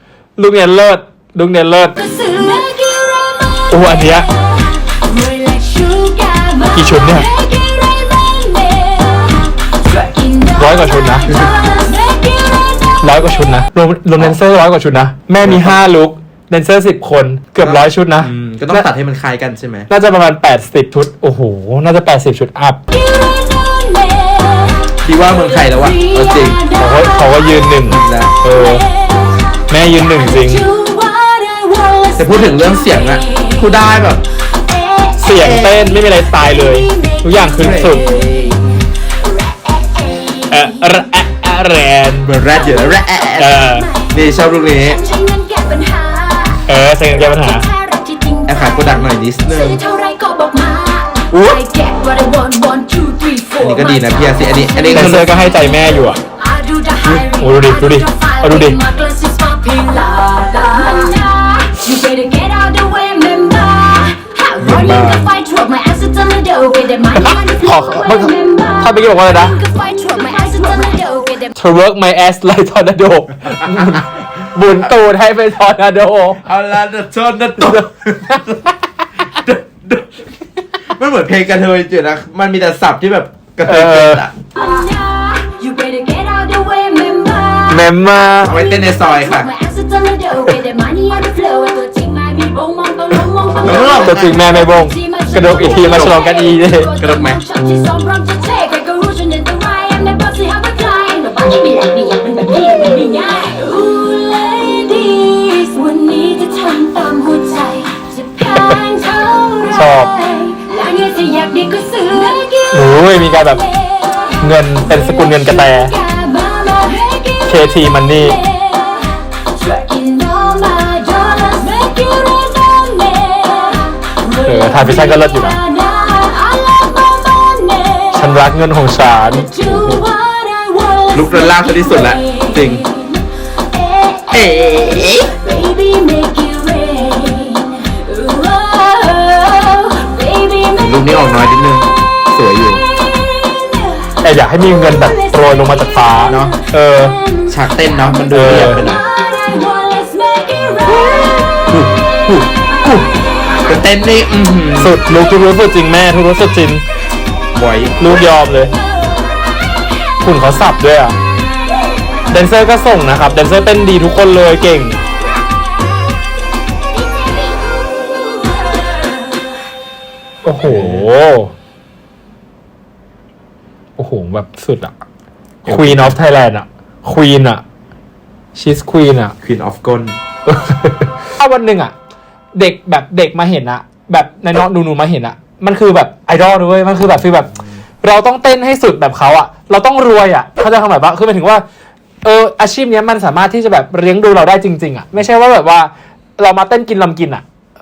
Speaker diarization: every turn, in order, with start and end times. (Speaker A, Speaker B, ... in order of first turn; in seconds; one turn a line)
Speaker A: 0.4-2.0
Speaker B: 2.0-13.1
Speaker A: 3.7-4.3
Speaker A: 6.7-7.3
Speaker A: 10.6-11.4
Speaker A: 13.0-18.9
Speaker C: 15.4-15.8
Speaker C: 17.6-19.9
Speaker A: 19.9-22.8
Speaker B: 22.9-27.8
Speaker C: 25.0-26.6
Speaker A: 26.8-28.9
Speaker C: 27.8-28.4
Speaker B: 28.5-33.7
Speaker A: 29.7-30.7
Speaker C: 32.2-34.2
Speaker B: 34.5-41.1
Speaker A: 35.2-38.1
Speaker C: 35.3-35.8
Speaker C: 37.6-38.6
Speaker A: 40.5-42.3
Speaker C: 42.2-45.0
Speaker B: 42.5-71.5
Speaker A: 43.4-43.9
Speaker A: 46.7-47.7
Speaker C: 48.5-49.8
Speaker A: 51.3-51.6
Speaker C: 53.6-55.4
Speaker A: 54.9-56.2
Speaker A: 57.1-58.8
Speaker C: 64.6-65.2
Speaker A: 67.2-69.5
Speaker A: 71.6-76.4
Speaker C: 76.4-78.7
Speaker A: 77.6-78.4
Speaker C: 79.3-80.2
Speaker C: 80.9-84.3
Speaker A: 83.7-84.2
Speaker B: 84.6-128.3
Speaker A: 87.7-88.5
Speaker C: 88.4-89.5
Speaker C: 93.6-94.3
Speaker A: 94.0-96.9
Speaker C: 95.4-96.2
Speaker C: 97.0-97.4
Speaker A: 109.7-110.1
Speaker A: 112.7-113.6
Speaker A: 114.4-115.9
Speaker A: 117.5-118.4
Speaker A: 124.5-125.6
Speaker A: 128.1-129.5
Speaker B: 129.2-141.9
Speaker C: 129.6-130.1
Speaker C: 131.1-132.9
Speaker C: 134.3-135.3
Speaker C: 140.8-142.8
Speaker B: 142.9-152.0
Speaker A: 144.2-147.2
Speaker C: 146.3-146.5
Speaker C: 147.5-149.0
Speaker A: 148.3-148.8
Speaker C: 151.7-152.3
Speaker C: 153.7-155.0
Speaker A: 154.8-156.8
Speaker C: 157.5-158.2
Speaker A: 158.0-158.7
Speaker B: 159.1-159.8
Speaker A: 160.2-161.2
Speaker A: 162.3-165.0
Speaker A: 170.4-171.5
Speaker C: 170.6-171.1
Speaker A: 174.0-174.9
Speaker C: 175.7-176.2
Speaker A: 175.7-177.6
Speaker A: 178.6-179.4
Speaker C: 179.4-180.2
Speaker A: 180.5-181.9
Speaker A: 182.6-191.6
Speaker A: 192.2-197.4